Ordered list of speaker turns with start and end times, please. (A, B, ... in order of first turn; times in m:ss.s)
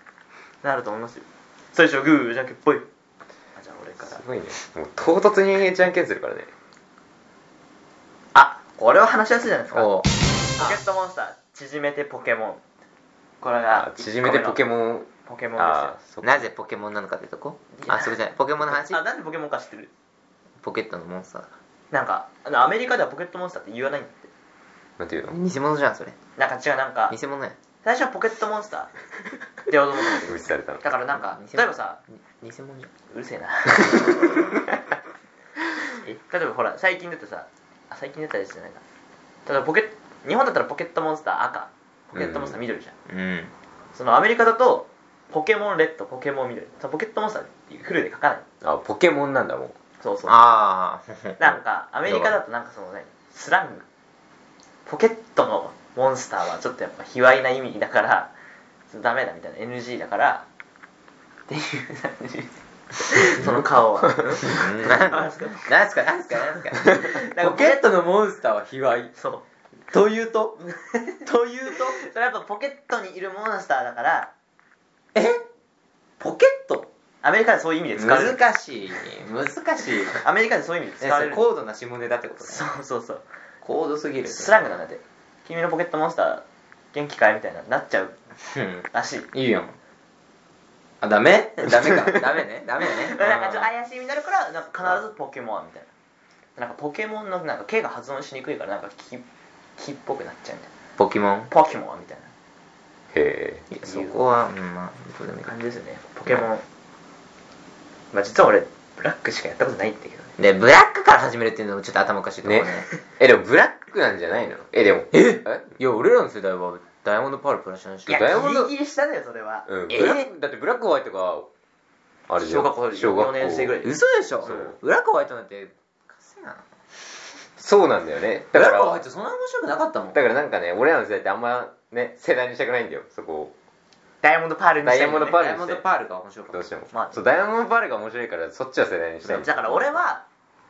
0:00.6-0:02.9 A
0:03.5-0:04.2 A
0:04.0-0:06.5 B
0:08.3-0:09.9 A
0:09.7-0:10.8 C
0:10.5-0:12.6 A
0:13.4-0:14.6 A
0:13.7-0:16.5 B
0:15.2-0:16.0 A
0:16.2-0:19.0 C
0:17.7-0:19.9 A
0:20.6-0:21.5 C
0:21.9-0:24.3 A
0:25.0-0:25.4 B
0:25.3-0:26.2 C
0:26.4-0:27.2 A
0:27.1-0:27.6 C
0:27.8-0:28.9 A
0:29.7-0:32.0 A
0:30.2-0:30.8 B
0:31.1-0:32.9 C
0:33.1-0:34.3 A
0:36.3-0:38.8 A
0:39.4-0:42.9 A
0:42.2-0:42.6 B
0:43.1-0:43.5 C
0:43.9-0:48.4 A
0:48.6-0:49.8 B
0:50.0-0:50.4 A
0:50.2-0:52.4 C
0:51.4-0:53.8 A
0:54.8-0:58.3 A
0:58.9-1:00.4 A
1:01.5-1:05.7 A
1:04.4-1:04.8 B
1:04.4-1:09.1 C
1:06.5-1:07.9 A
1:09.2-1:09.4 A
1:09.9-1:12.0 C
1:11.9-1:14.3 A
1:15.1-1:15.4 C
1:16.2-1:16.9 C
1:17.2-1:18.4 A
1:17.9-1:20.2 C
1:20.2-1:21.4 A
1:21.0-1:22.7 C
1:22.4-1:23.2 A
1:23.6-1:24.6 C
1:24.2-1:28.2 A
1:28.5-1:29.8 C
1:28.9-1:29.3 A
1:31.0-1:33.7 C
1:32.8-1:35.9 A
1:36.6-1:39.2 A
1:39.8-1:40.7 A
1:41.0-1:41.5 C
1:41.5-1:42.3 A
1:43.1-1:43.6 B
1:43.7-1:45.5 C
1:43.7-1:44.2 A
1:45.4-1:46.6 A
1:48.1-1:50.3 A
1:50.4-1:52.9 C
1:52.4-1:55.8 B
1:55.1-1:58.6 C
1:58.1-1:59.7 A
1:58.1-1:58.7 B
1:59.7-2:01.5 B
1:59.9-2:00.3 C
2:02.3-2:03.8 B
2:02.4-2:03.9 A
2:03.8-2:06.6 C
2:04.4-2:04.7 B
2:07.6-2:09.0 B
2:08.5-2:10.2 C
2:10.1-2:13.5 B
2:14.2-2:15.4 A
2:14.8-2:15.8 B
2:15.3-2:16.7 C
2:16.5-2:20.0 B
2:16.9-2:17.2 A
2:19.2-2:20.2 A